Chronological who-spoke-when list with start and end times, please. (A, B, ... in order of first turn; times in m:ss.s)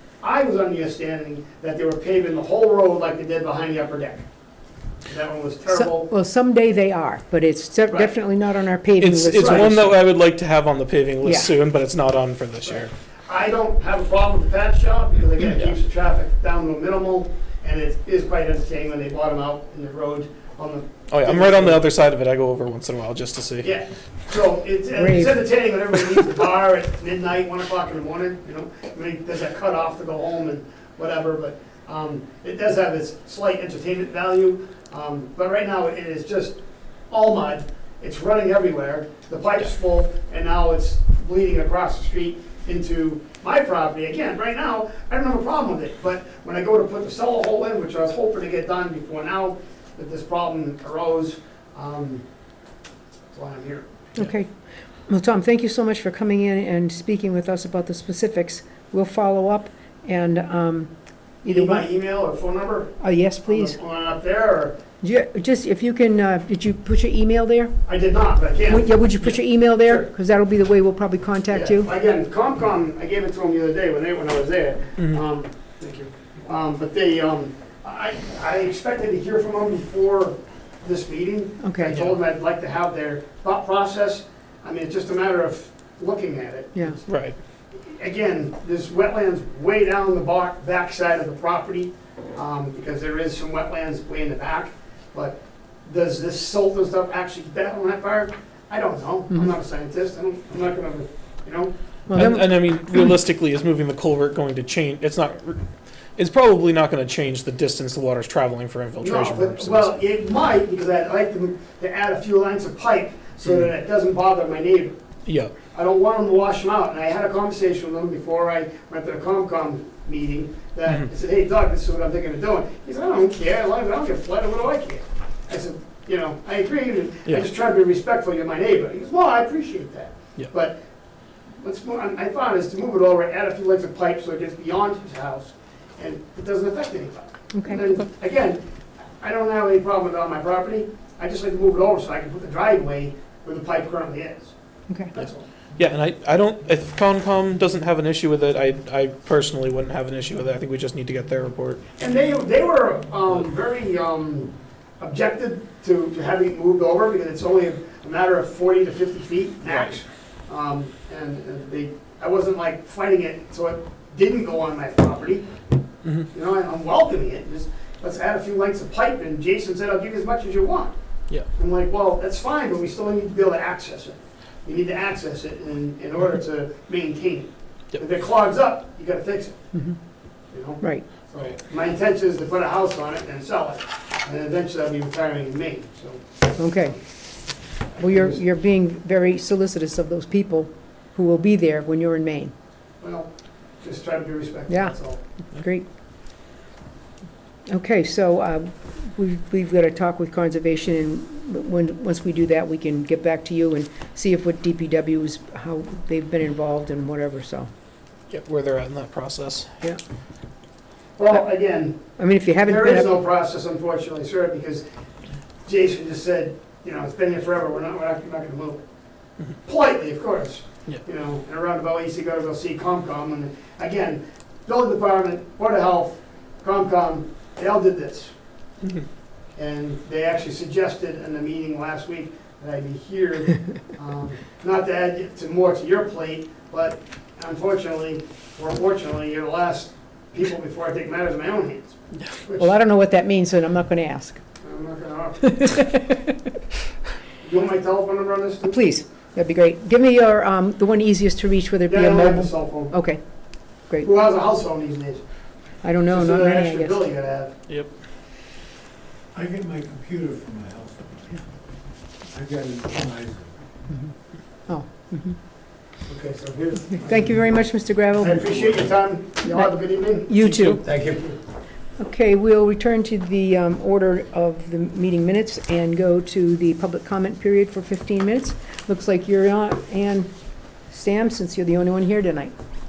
0:00.2-0:04.2 A
0:05.1-0:06.1 A
0:05.7-0:10.0 B
0:09.0-0:12.9 C
0:09.3-0:09.8 A
0:11.2-0:11.5 B
0:12.6-0:21.9 A
0:21.1-0:23.7 C
0:23.6-0:36.6 A
0:24.9-0:25.4 B
0:37.1-0:52.2 A
0:53.3-0:53.9 A
0:54.2-0:54.5 B
0:55.1-1:01.9 B
1:01.5-1:04.8 A
1:03.0-1:03.8 B
1:05.0-1:11.9 B
1:07.8-1:10.1 A
1:11.5-1:41.7 A
1:21.6-1:22.0 B
1:27.1-1:27.4 C
1:42.1-1:43.1 B
1:42.1-1:45.6 C
1:46.2-1:49.9 C
1:49.0-1:55.0 A
1:55.2-1:55.5 C
1:55.7-2:10.8 A
2:11.6-2:18.6 A
2:19.2-2:24.5 A
2:25.1-2:25.4 A
2:25.8-2:31.8 C
2:32.0-2:45.4 A
2:46.3-2:50.9 A
2:51.5-2:59.6 A
3:00.5-3:06.2 A
3:00.8-3:01.2 B
3:06.6-3:07.0 B
3:08.0-3:12.5 B
3:08.0-3:08.4 A
3:13.0-3:13.3 A
3:13.8-3:15.2 A
3:14.7-3:14.9 B
3:15.5-3:15.9 B
3:17.7-3:27.7 B
3:28.3-3:29.7 C
3:31.2-3:32.0 A
3:32.0-3:33.2 B
3:32.6-3:34.8 A
3:35.6-3:38.8 A
3:39.6-3:48.3 A
3:49.6-4:02.7 A
4:02.5-4:04.4 B
4:04.6-4:05.7 A
4:05.4-4:06.4 B
4:07.4-4:08.8 A
4:08.6-4:13.2 B
4:11.9-4:12.9 A
4:13.8-4:14.1 B
4:14.0-4:15.2 A
4:15.8-4:17.0 B
4:16.1-4:17.5 A
4:19.3-4:21.4 D
4:22.3-4:23.6 D
4:24.7-4:25.4 B
4:26.0-4:27.5 A
4:26.9-4:28.8 B
4:28.2-4:30.4 A
4:28.4-4:28.8 D
4:29.4-4:30.8 B
4:30.4-4:30.8 C
4:30.8-4:31.3 D
4:31.0-4:31.3 A
4:32.0-4:40.3 B
4:40.9-4:42.5 B